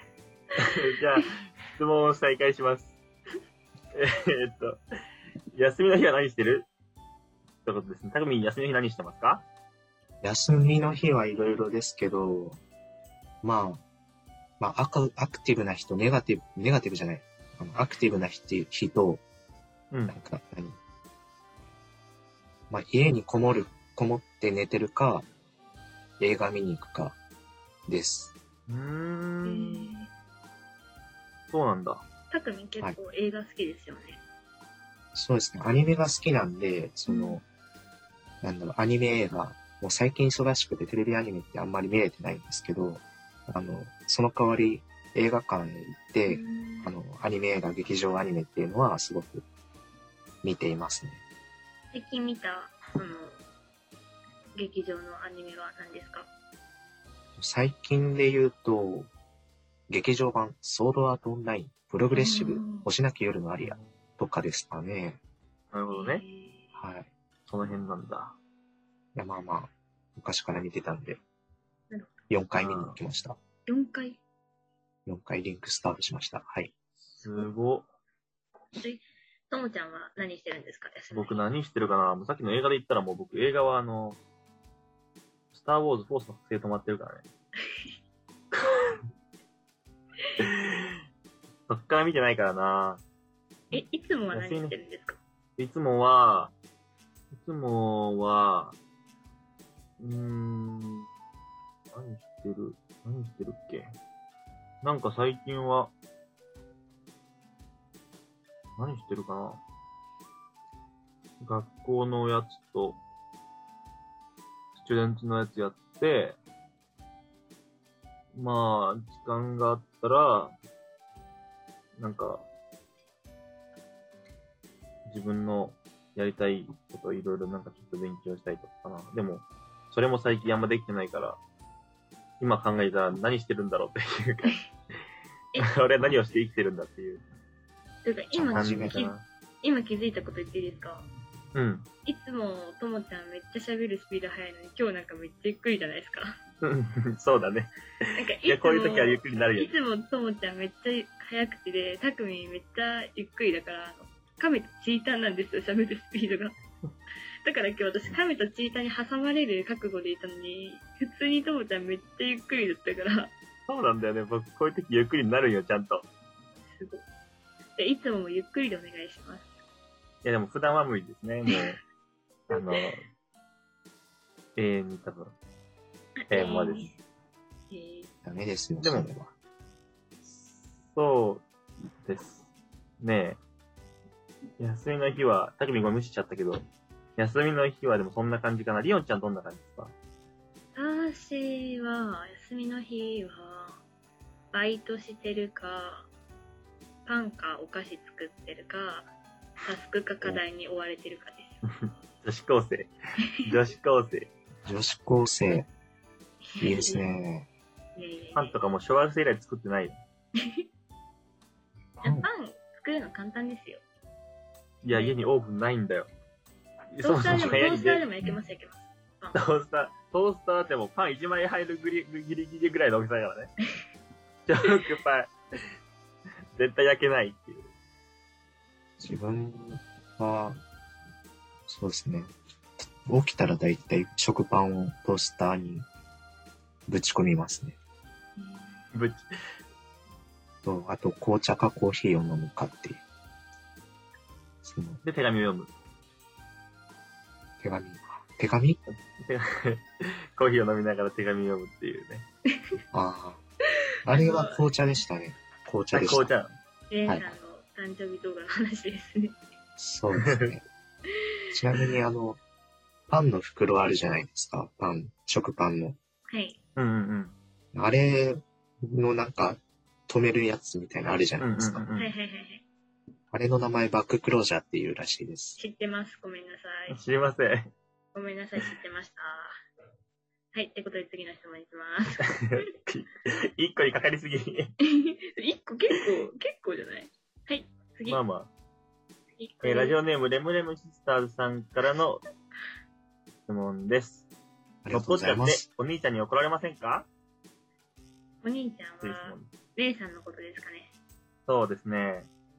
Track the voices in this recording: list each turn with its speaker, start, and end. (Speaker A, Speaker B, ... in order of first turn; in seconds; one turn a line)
Speaker A: 0.6-3.0
Speaker A: 3.9-4.8
Speaker A: 5.5-6.7
Speaker A: 7.6-9.4
Speaker B: 10.2-12.6
Speaker B: 13.4-13.8
Speaker B: 14.6-19.2
Speaker A: 19.9-20.1
Speaker B: 20.1-20.8
Speaker B: 22.7-25.3
Speaker B: 26.2-27.2
Speaker B: 27.9-28.3
Speaker A: 28.7-29.9
Speaker C: 29.4-30.1
Speaker A: 31.5-32.0
Speaker C: 32.3-34.2
Speaker B: 35.1-37.4
Speaker C: 37.1-37.4
Speaker B: 38.4-49.5
Speaker C: 46.3-46.9
Speaker B: 50.4-51.2
Speaker C: 51.9-53.4
Speaker C: 54.6-56.3
Speaker B: 57.4-59.1
Speaker B: 59.9-65.2
Speaker C: 62.1-62.9
Speaker A: 65.7-66.2
Speaker C: 65.9-66.7
Speaker B: 66.7-67.1
Speaker A: 67.5-68.3
Speaker B: 69.1-71.2
Speaker B: 72.3-73.4
Speaker A: 72.6-73.0
Speaker C: 73.7-74.2
Speaker B: 75.1-76.7
Speaker A: 77.2-77.9
Speaker C: 78.8-81.5
Speaker A: 81.1-84.2
Speaker A: 85.5-87.2
Speaker A: 88.5-89.0
Speaker A: 90.4-90.9
Speaker A: 91.7-93.0
Speaker C: 93.7-95.2
Speaker A: 94.3-94.8
Speaker A: 95.6-96.5
Speaker A: 97.3-98.8
Speaker A: 100.0-101.1
Speaker A: 101.9-104.0
Speaker A: 104.8-105.9
Speaker A: 108.8-109.6
Speaker A: 111.4-113.0
Speaker A: 114.8-116.4
Speaker A: 118.3-120.5
Speaker A: 122.0-122.5
Speaker A: 125.1-131.4
Speaker A: 132.4-134.6
Speaker A: 135.6-137.2
Speaker C: 138.0-141.1
Speaker B: 138.3-139.0
Speaker A: 138.5-139.2
Speaker A: 141.5-141.9
Speaker C: 142.1-146.3
Speaker A: 146.6-147.7
Speaker C: 148.1-156.5
Speaker A: 148.4-149.8
Speaker C: 157.4-163.3
Speaker A: 163.7-166.1
Speaker C: 166.6-167.0
Speaker C: 167.8-169.5
Speaker A: 170.2-171.8
Speaker A: 172.5-173.0
Speaker A: 174.6-175.3
Speaker C: 176.2-176.9
Speaker A: 176.3-176.9
Speaker C: 177.7-178.1
Speaker B: 178.2-179.3
Speaker A: 178.8-179.1
Speaker A: 180.4-181.4
Speaker A: 182.1-182.5
Speaker A: 183.0-183.4
Speaker A: 184.6-186.6
Speaker A: 187.2-189.9
Speaker C: 190.8-193.8
Speaker C: 194.5-196.1
Speaker C: 197.1-199.1
Speaker C: 199.6-201.6
Speaker A: 201.9-204.3
Speaker B: 204.6-205.7
Speaker C: 206.5-207.1
Speaker B: 206.6-207.5
Speaker C: 208.0-208.6
Speaker A: 208.4-210.0
Speaker B: 212.0-212.3
Speaker C: 212.0-213.8
Speaker A: 214.8-216.1
Speaker C: 214.9-215.2
Speaker A: 216.9-218.1
Speaker C: 217.0-219.4
Speaker B: 217.3-217.6
Speaker A: 219.3-223.5
Speaker A: 224.5-225.3
Speaker A: 226.6-227.7
Speaker B: 229.0-230.6
Speaker B: 231.7-235.9
Speaker B: 236.9-237.8
Speaker C: 238.4-238.8
Speaker A: 238.9-239.2
Speaker B: 240.6-243.0
Speaker B: 244.6-245.0
Speaker A: 245.0-245.7
Speaker B: 247.6-248.8
Speaker A: 248.9-252.3
Speaker B: 252.9-253.4
Speaker B: 254.1-256.3
Speaker C: 254.1-254.6
Speaker A: 255.9-256.5
Speaker C: 256.9-259.4
Speaker B: 257.1-257.3
Speaker B: 259.8-260.6
Speaker A: 260.2-260.5
Speaker B: 261.5-262.4
Speaker B: 263.1-266.0
Speaker C: 266.3-266.6
Speaker A: 266.8-267.4
Speaker B: 267.7-271.9
Speaker A: 271.4-272.1
Speaker C: 272.0-272.6
Speaker B: 273.3-275.6
Speaker C: 275.6-277.0
Speaker A: 276.9-277.7
Speaker C: 278.1-279.5
Speaker C: 280.5-282.6
Speaker A: 282.2-284.7
Speaker C: 284.8-288.2
Speaker A: 288.1-288.5
Speaker C: 289.4-290.0
Speaker A: 289.6-292.2
Speaker A: 293.5-294.2
Speaker B: 294.8-295.6
Speaker A: 294.9-297.1
Speaker C: 298.4-300.9
Speaker A: 299.0-299.5
Speaker A: 301.5-302.3